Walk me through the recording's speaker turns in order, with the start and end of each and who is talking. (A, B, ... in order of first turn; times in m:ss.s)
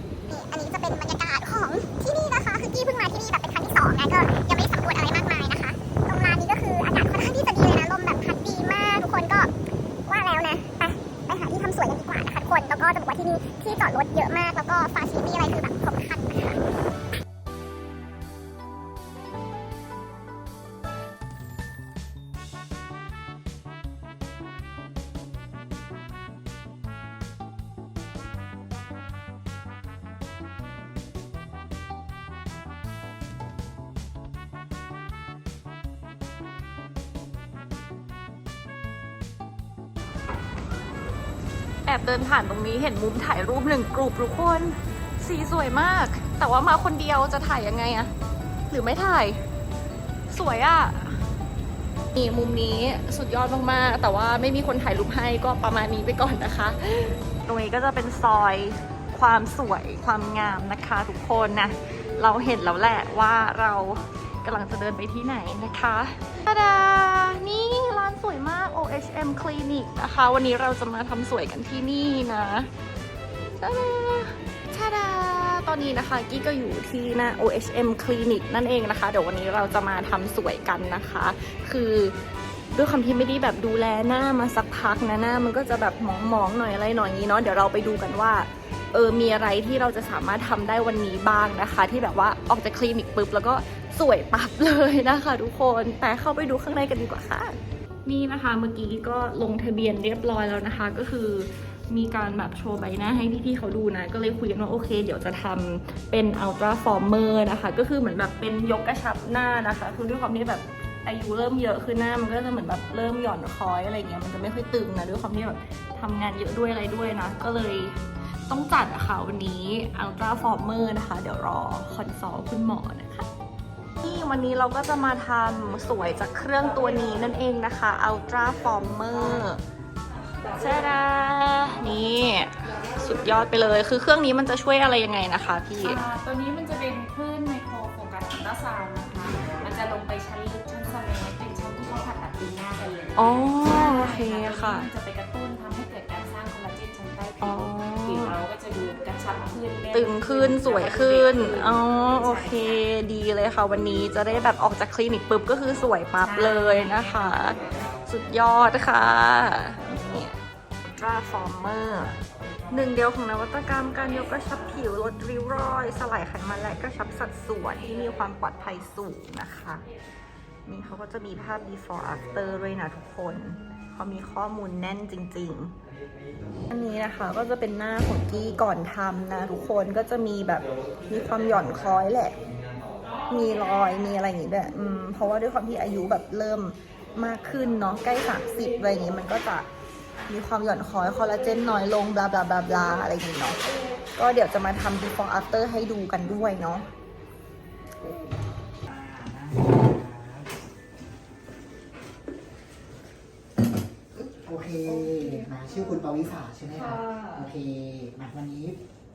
0:00.3-0:09.5 A
0:10.1-0:16.7 A
0:41.8-0:48.1 B
0:48.7-0:49.4 B
0:50.3-0:51.2 B
0:52.1-1:12.7 B
1:13.6-1:22.2 B
1:22.7-2:03.3 B
2:04.0-2:09.6 B
2:10.5-2:16.0 B
2:15.8-2:32.8 C
2:23.2-2:24.9 B
2:27.4-2:28.4 B
2:29.9-2:40.4 B
2:36.2-2:36.9 C
2:40.9-2:42.2 B
2:42.7-2:49.8 B
2:50.7-2:55.8 B
2:56.7-3:02.5 B
3:03.3-3:09.7 B
3:10.3-3:13.6 B
3:14.2-3:16.9 B
3:18.8-3:20.5 D
3:24.2-3:28.8 D
3:24.8-3:26.0 B
3:26.7-3:27.5 B